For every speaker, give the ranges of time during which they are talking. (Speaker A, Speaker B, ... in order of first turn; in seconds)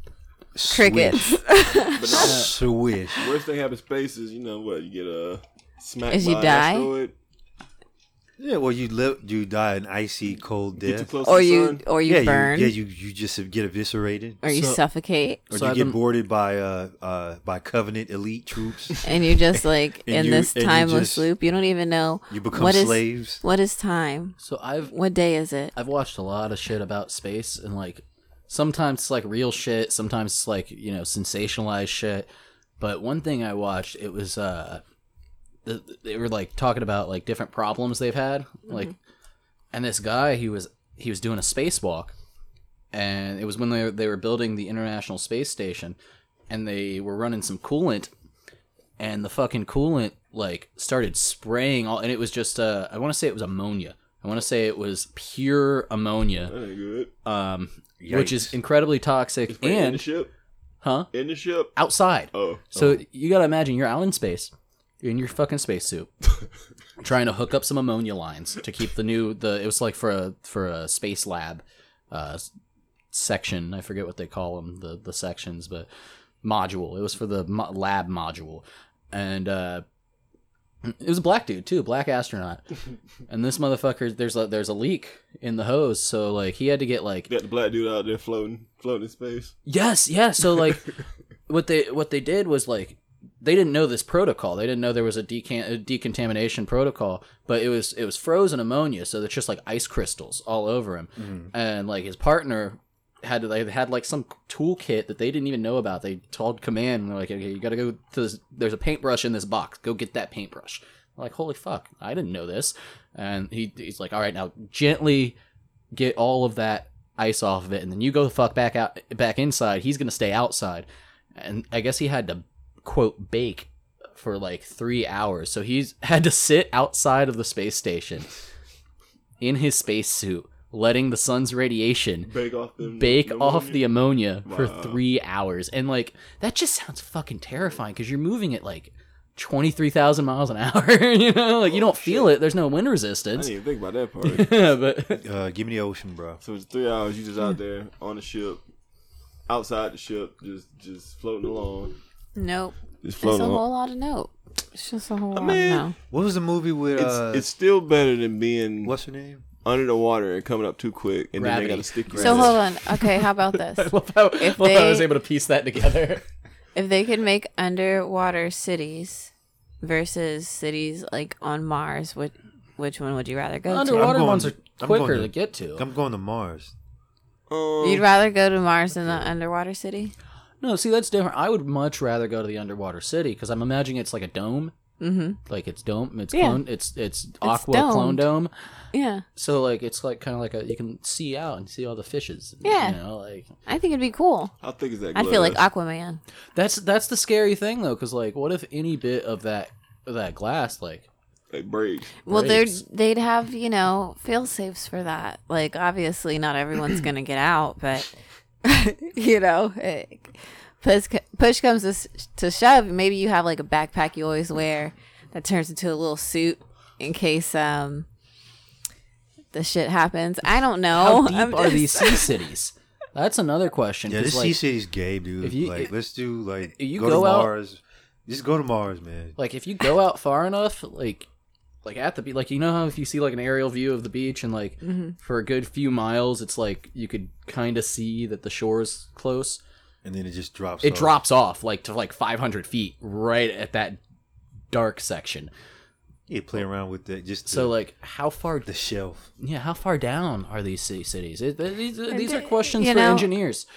Speaker A: 0.5-1.4, 2.1-3.3, 8.4-11.1, 12.0-14.4, 15.5-21.3, 22.3-23.4, 58.0-58.5, 101.2-101.5, 145.1-146.4, 156.1-157.4, 158.8-159.4, 173.9-176.7, 224.1-229.4, 240.0-241.2, 246.3-247.7, 248.6-249.3
Speaker B: 0.7-2.3, 6.1-6.9, 11.2-12.7, 14.4-15.4, 19.0-25.7, 152.3-155.9, 162.2-165.1, 166.7-174.2, 177.8-180.1, 185.0-185.4, 186.3-186.6, 187.4-188.3, 188.9-189.2, 192.6-193.0, 193.7-194.5, 195.1-196.2, 202.2-208.1, 208.6-218.1, 219.5-222.3, 234.8-235.1, 252.1-253.3
Speaker C: 1.9-2.6, 3.1-7.1, 10.8-11.8, 56.5-57.1, 59.5-60.3, 61.1-61.7, 62.3-62.6, 87.3-89.5, 132.2-133.8, 134.5-135.0, 141.6-142.3, 143.3-144.7, 146.4-148.6, 149.5-152.0, 153.0-153.6, 155.3-155.9, 156.9-158.9, 159.6-162.6, 177.5-178.1, 194.6-195.6, 201.5-202.2
Speaker D: 2.2-2.5, 14.5-14.8, 15.5-16.0, 24.4-24.9, 25.7-32.3, 32.8-34.8, 35.6-38.9, 39.7-42.1, 42.9-46.0, 46.5-48.1, 49.0-56.5, 57.2-60.0, 60.8-61.1, 61.7-64.5, 65.0-66.1, 67.0-72.5, 73.1-75.9, 76.4-79.8, 80.8-82.6, 83.3-87.3, 89.7-90.9, 91.5-115.3, 115.9-128.4, 129.4-132.3, 132.9-143.5, 144.2-145.2, 161.4-166.2, 173.7-175.8, 180.6-184.7, 185.5-188.5, 189.3-193.5, 196.5-201.1, 202.3-202.8, 220.9-224.6, 225.4-225.9, 226.7-227.5, 229.4-231.3, 231.8-239.6, 240.8-244.0, 244.7-245.5, 247.5-248.7, 249.4-253.7